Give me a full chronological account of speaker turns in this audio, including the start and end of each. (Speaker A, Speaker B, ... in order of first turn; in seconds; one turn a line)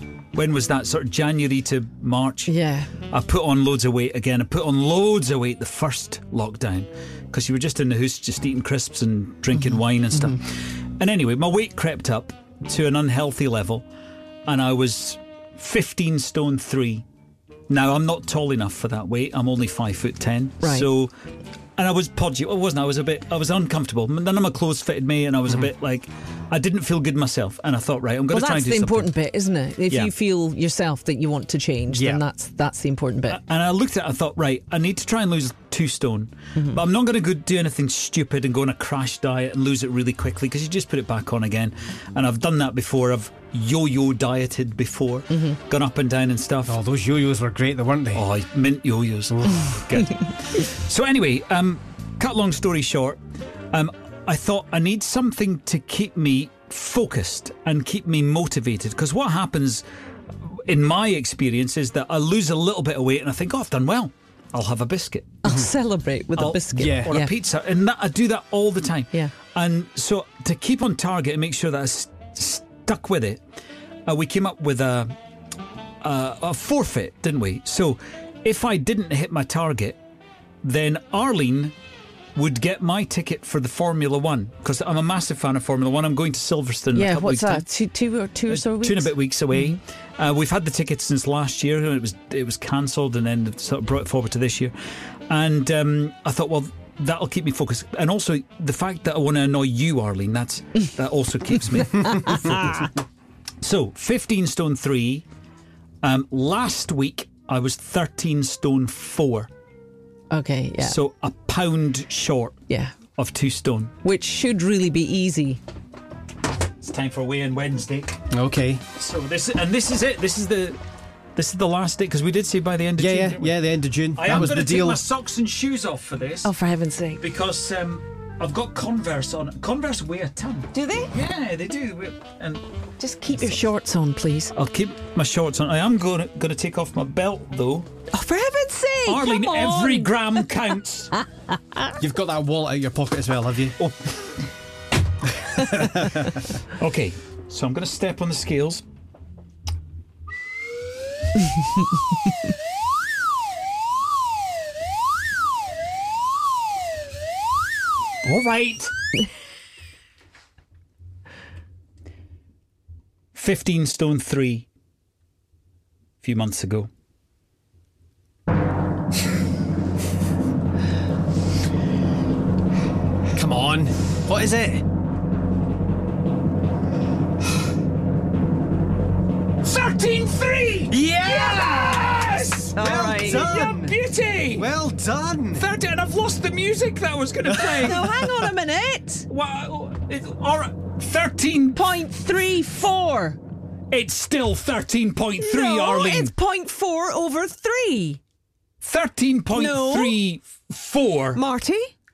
Speaker A: 0.3-2.5
Speaker B: 2.5-2.9
Speaker A: 3.1-13.8
Speaker A: 14.5-17.0
Speaker A: 17.7-21.1
Speaker B: 20.6-20.9
Speaker A: 21.8-29.1
Speaker B: 28.3-33.4
Speaker C: 31.9-32.2
Speaker A: 33.3-46.8
Speaker C: 46.6-48.2
Speaker A: 48.1-53.2
Speaker A: 53.7-59.8
Speaker A: 60.4-65.4
Speaker B: 65.4-67.3
Speaker A: 66.3-73.4
Speaker C: 66.8-67.1
Speaker A: 74.0-75.1
Speaker A: 76.0-80.0
Speaker A: 80.6-81.7
Speaker A: 82.3-87.6
Speaker B: 86.9-89.6
Speaker A: 88.5-94.7
Speaker A: 95.3-102.9
Speaker B: 102.1-102.8
Speaker A: 103.6-105.2
Speaker A: 106.0-109.5
Speaker B: 110.3-111.0
Speaker A: 110.8-112.6
Speaker B: 112.7-113.0
Speaker A: 113.2-113.9
Speaker B: 114.0-115.6
Speaker A: 116.8-118.2
Speaker C: 118.3-118.8
Speaker A: 118.9-120.8
Speaker A: 121.3-123.6
Speaker C: 123.0-125.0
Speaker A: 124.1-126.5
Speaker B: 126.4-127.2
Speaker A: 127.2-132.6
Speaker B: 130.7-131.1
Speaker B: 133.0-134.5
Speaker A: 134.5-137.9
Speaker B: 138.1-140.4
Speaker A: 139.1-141.1
Speaker C: 142.0-143.8
Speaker A: 143.8-144.1
Speaker C: 145.6-146.1
Speaker A: 145.7-146.1
Speaker A: 146.7-148.8
Speaker A: 158.2-158.9
Speaker A: 163.3-164.7
Speaker A: 166.2-166.9
Speaker C: 173.3-174.8
Speaker A: 179.6-184.7
Speaker C: 180.9-181.8
Speaker B: 181.1-181.7
Speaker B: 182.7-183.6
Speaker C: 182.8-184.0
Speaker C: 184.5-185.7
Speaker A: 185.5-188.5
Speaker B: 187.7-189.3
Speaker A: 189.3-191.9
Speaker B: 191.7-193.4
Speaker A: 193.9-196.3
Speaker B: 195.4-198.2
Speaker A: 198.8-201.4
Speaker B: 199.5-200.2
Speaker B: 201.3-201.9